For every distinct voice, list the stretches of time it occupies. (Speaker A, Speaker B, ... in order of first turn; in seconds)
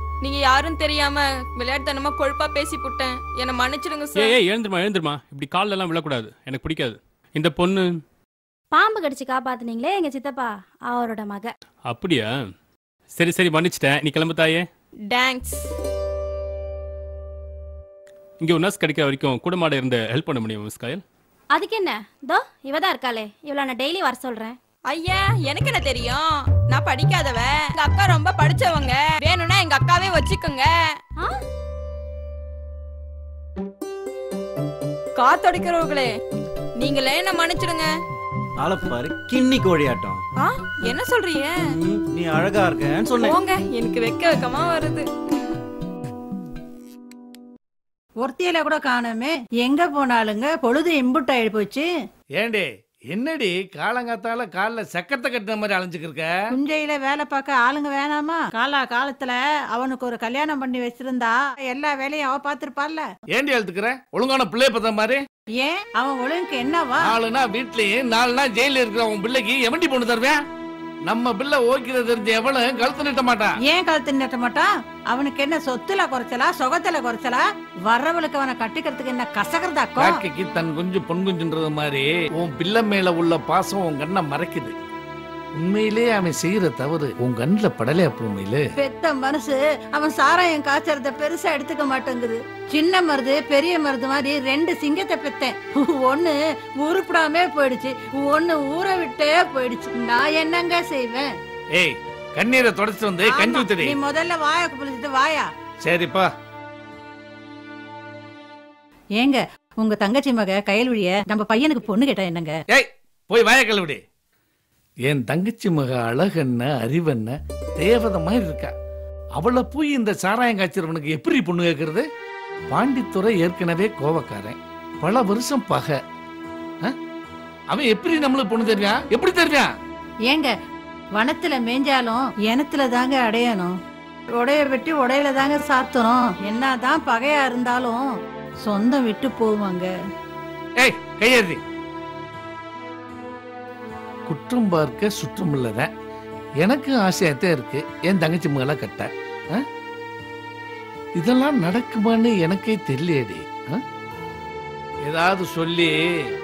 Speaker A: 0.2-4.4, 15.1-15.7, 24.9-30.9, 35.2-36.1, 36.8-37.9, 40.4-41.6, 43.2-45.6
Speaker B: 4.2-7.8, 11.9-12.3, 13.2-14.7, 18.4-21.0
Speaker C: 8.7-11.5, 21.5-24.6
Speaker D: 38.6-40.2, 41.6-43.4
Speaker E: 48.2-51.9, 56.5-63.1, 65.6-67.2, 73.7-80.2, 88.8-101.3, 103.2-105.5, 109.2-112.6, 131.2-133.8, 134.4-138.1, 138.6-139.9
Speaker F: 52.4-56.3, 63.3-65.2, 67.0-70.4, 71.1-73.5, 80.0-84.7, 85.6-88.6, 101.8-104.0, 105.8-106.3, 112.7-114.0, 115.1-118.7, 119.4-122.0, 122.7-126.0, 127.7-129.7, 140.8-141.6, 144.3-145.9, 146.6-149.6, 151.2-153.8, 155.1-155.9